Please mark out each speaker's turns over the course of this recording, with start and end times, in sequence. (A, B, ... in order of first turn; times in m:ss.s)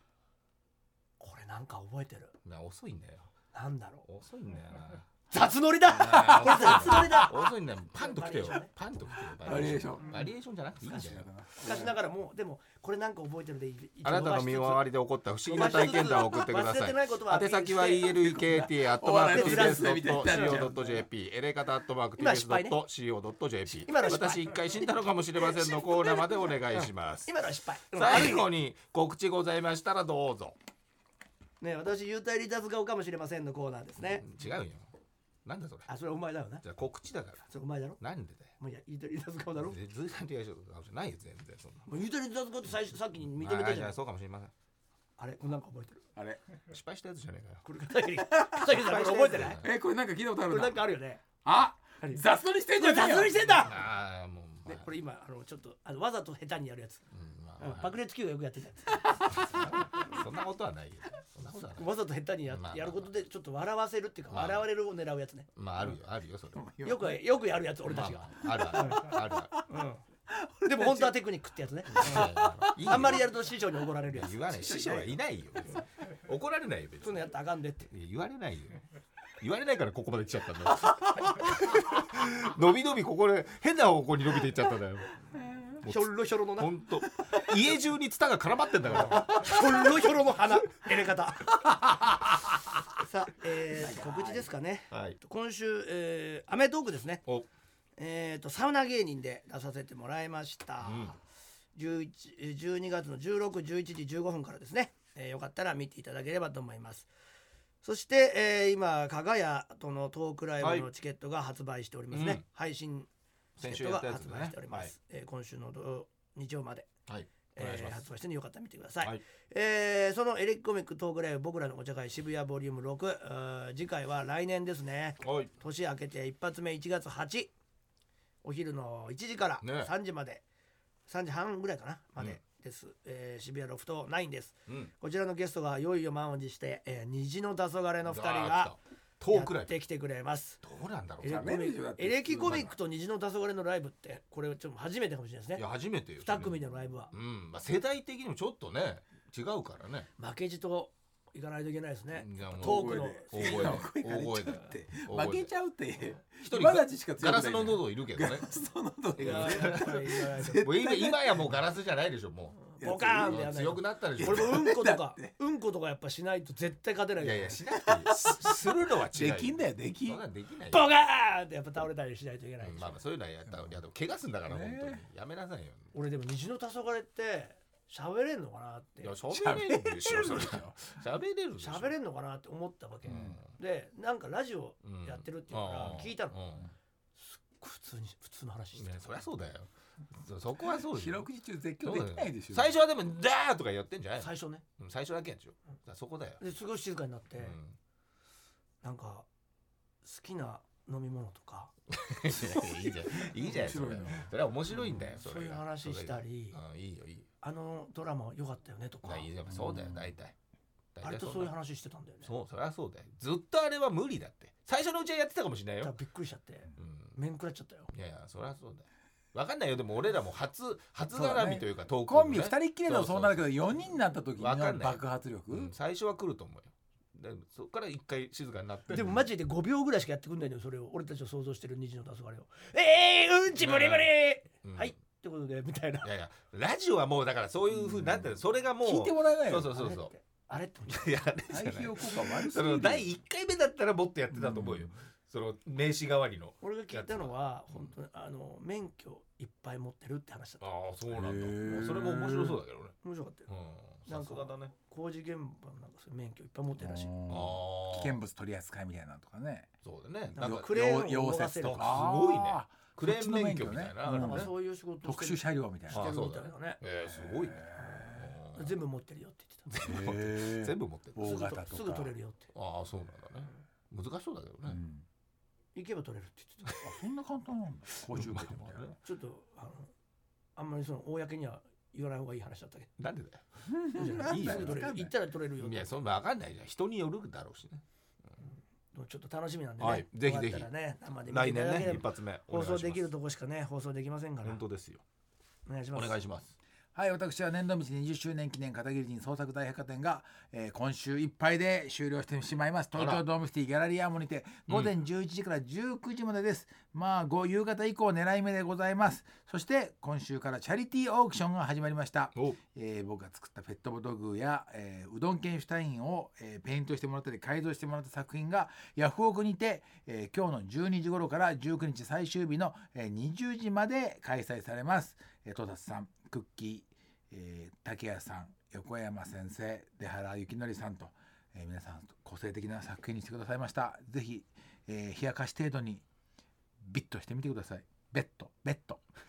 0:01.2-0:02.3 A
0:02.4-0:03.3 B
0:03.5-0:04.0 A
0:04.1-0:05.1 B
0:05.3-0:08.7 A
0:05.9-0:11.3 B
0:05.9-0:07.3 C
0:09.4-0:10.2 C
0:09.5-0:10.3 A
0:10.9-0:12.0 C
0:11.6-0:14.9 A
0:14.0-0:27.3 B
0:15.5-0:18.1 A
0:18.0-0:21.1 C
0:19.3-0:20.7 A
0:22.2-0:22.8 A
0:23.8-0:28.5 A
0:27.9-0:30.6 B
0:31.6-0:34.2 A
0:34.1-0:34.9 B
0:35.4-0:35.9 B
0:35.9-0:36.6 A
0:36.6-0:38.5 B
0:37.5-0:38.0 A
0:38.6-0:39.8 A
0:39.6-0:41.9 B
0:41.9-0:44.0 A
0:43.4-0:44.5 B
0:45.2-0:46.0 A
0:46.7-0:47.6 B
0:47.6-0:49.6 A
0:48.3-0:50.8 C
0:48.7-0:49.7 B
0:50.5-0:51.2 A
0:51.4-0:53.6 C
0:52.8-0:53.8 A
0:53.4-0:54.9 B
0:54.7-0:57.0 A
0:57.1-0:58.0 B
0:57.6-0:59.8 A
0:59.3-1:03.1 B
1:01.8-1:05.5 A
1:04.3-1:04.7 B
1:05.6-1:06.7 B
1:06.5-1:07.2 C
1:06.8-1:09.1 A
1:07.8-1:09.6 B
1:08.4-1:09.7 C
1:09.7-1:10.0 A
1:10.3-1:11.2 C
1:10.6-1:15.2 A
1:12.0-1:13.0 C
1:12.0-1:13.4 B
1:14.1-1:17.3 B
1:17.0-1:17.9 A
1:17.9-1:18.8 B
1:19.4-1:25.2 B
1:25.7-1:29.9 B
1:25.9-1:26.7 A
1:29.0-1:31.6 A
1:31.8-1:32.6 C
1:33.0-1:37.2 A
1:33.8-1:34.5 C
1:34.9-1:35.2 B
1:38.0-1:41.2 A
1:40.8-1:41.2 B
1:41.8-1:47.1 A
1:47.8-1:53.1 A
1:50.6-1:50.9 B
1:52.1-1:52.4 B
1:53.6-1:54.9 B
1:53.6-1:56.9 A
1:57.1-1:58.0 B
1:57.6-2:07.5 A
2:05.2-2:05.5 B
2:08.4-2:10.4 A
2:09.6-2:09.9 B
2:11.1-2:18.7 A
2:14.7-2:14.9 B
2:18.0-2:19.8 B
2:19.3-2:20.6 A
2:20.6-2:21.6 B
2:21.2-2:25.6 A
2:21.2-2:22.8 C
2:25.6-2:30.1 B
2:26.2-2:27.1 A
2:30.2-2:33.8 A
2:32.1-2:35.5 B
2:32.6-2:41.6 C
2:36.4-2:38.5 B
2:39.2-2:44.7 B
2:39.2-2:40.7 A
2:42.7-2:47.6 A
2:42.8-2:43.5 C
2:44.2-2:45.3 C
2:47.2-2:50.9 B
2:48.0-2:48.5 C
2:49.1-2:50.2 C
2:50.7-2:53.0 A
2:52.6-2:55.9 B
2:53.5-2:53.8 C
2:54.5-2:55.0 C
2:55.9-2:59.1 A
2:59.0-3:01.9 B
2:59.3-3:00.8 C
3:01.6-3:06.4 A
3:03.0-3:03.5 B
3:03.1-3:03.4 C
3:04.8-3:06.7 B
3:07.2-3:09.0 A
3:08.8-3:11.3 B
3:10.9-3:12.7 C
3:11.8-3:16.4 B
3:14.2-3:14.6 A
3:16.4-3:17.6 A
3:17.4-3:17.8 B
3:18.8-3:19.3 A
3:20.0-3:21.7 A
3:21.9-3:27.3 B
3:22.4-3:25.1 C
3:25.2-3:26.6 A
3:27.4-3:29.3 A
3:29.0-3:30.3 B
3:29.5-3:30.1 C
3:31.0-3:31.5 B
3:31.0-3:32.3 A
3:32.2-3:36.0 B
3:35.8-3:37.9 A
3:36.8-3:37.2 B
3:37.9-3:43.6 B
3:41.1-3:45.7 C
3:44.4-3:49.3 B
3:48.9-3:56.1 A
3:53.6-3:54.9 B
3:56.0-4:00.1 B
3:57.7-4:00.0 C
3:59.8-4:01.3 A
4:00.9-4:07.9 B
4:01.5-4:03.1 C
4:04.3-4:04.9 C
4:06.6-4:10.7 A
4:10.6-4:13.0 B
4:11.1-4:12.6 C
4:13.0-4:13.5 A
4:13.5-4:14.7 B
4:14.1-4:17.2 A
4:16.8-4:19.7 C
4:17.3-4:18.2 B
4:19.8-4:20.7 B
4:20.3-4:22.1 A
4:20.4-4:24.5 C
4:21.6-4:24.5 B
4:24.1-4:26.8 A
4:25.0-4:26.2 C
4:25.9-4:28.8 B
4:27.1-4:28.4 C
4:27.8-4:29.9 A
4:29.7-4:31.3 B
4:29.8-4:32.1 C
4:31.2-4:32.5 A
4:32.5-4:34.8 B
4:34.7-4:35.0 C
4:35.8-4:36.8 A
4:36.8-4:38.9 C
4:38.0-4:39.0 B
4:39.0-4:39.9 A
4:40.6-4:42.9 A
4:43.0-4:43.4 B
4:43.7-4:45.1 C
4:44.0-4:45.9 A
4:44.1-4:44.8 B
4:45.6-4:47.8 B
4:48.9-4:54.6 A
4:49.8-4:50.7 B
4:51.3-4:53.1 B
4:54.4-4:55.0 B
4:55.7-4:56.2 A
4:55.9-4:56.6 B
4:57.0-5:36.0 C
5:03.0-5:03.2 B
5:04.7-5:05.0 B
5:36.8-5:39.0 C